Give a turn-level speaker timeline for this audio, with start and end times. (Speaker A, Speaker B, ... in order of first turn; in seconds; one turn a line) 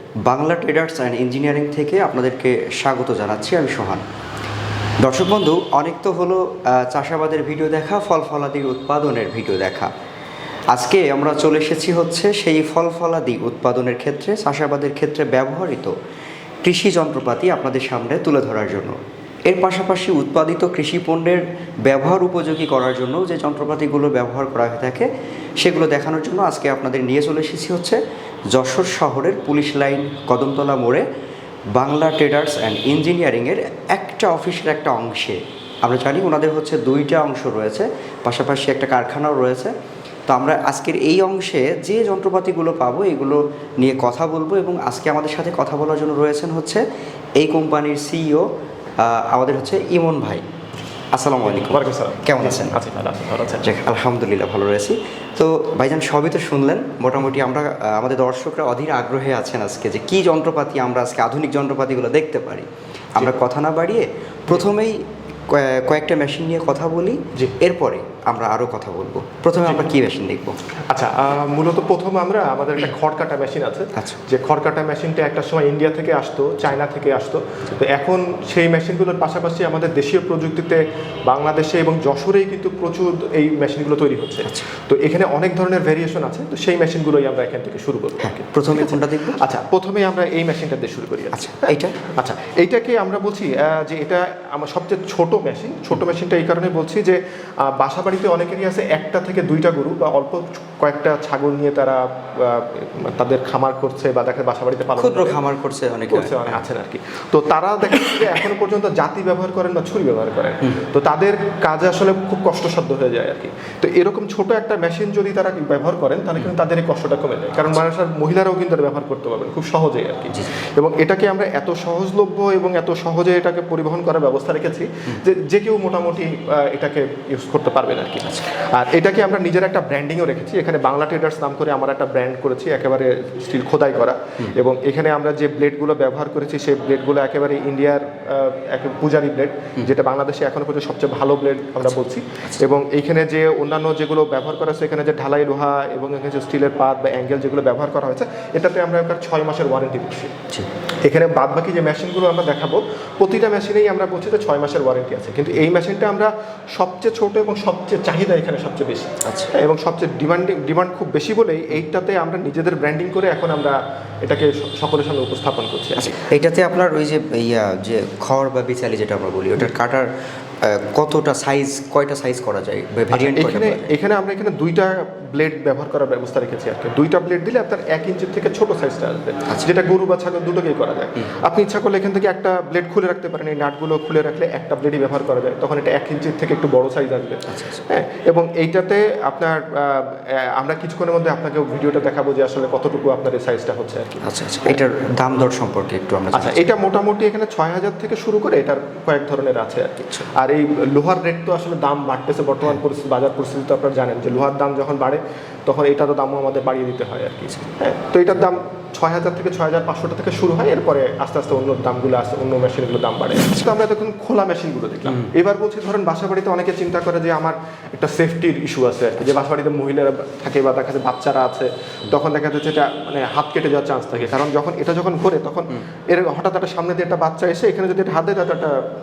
Speaker A: 0.2-4.0
Speaker A: 5.0-9.9
Speaker A: 10.7-15.9
Speaker A: 16.6-18.9
Speaker A: 19.5-28.0
Speaker A: 28.5-31.1
Speaker A: 31.8-39.7
Speaker A: 40.3-46.8
Speaker A: 47.4-48.5
Speaker A: 49.0-50.4
Speaker A: 51.1-52.8
Speaker B: 51.4-53.7
Speaker A: 53.6-70.6
Speaker B: 69.6-69.9
Speaker B: 70.9-105.4
Speaker A: 88.2-89.4
Speaker A: 91.3-92.0
Speaker A: 105.0-106.6
Speaker B: 106.1-150.3
Speaker B: 151.1-166.1
Speaker A: 159.2-159.5
Speaker A: 166.0-170.1
Speaker A: 170.6-173.9
Speaker B: 173.1-194.8
Speaker A: 187.5-187.8
Speaker A: 194.2-196.8
Speaker B: 196.3-228.8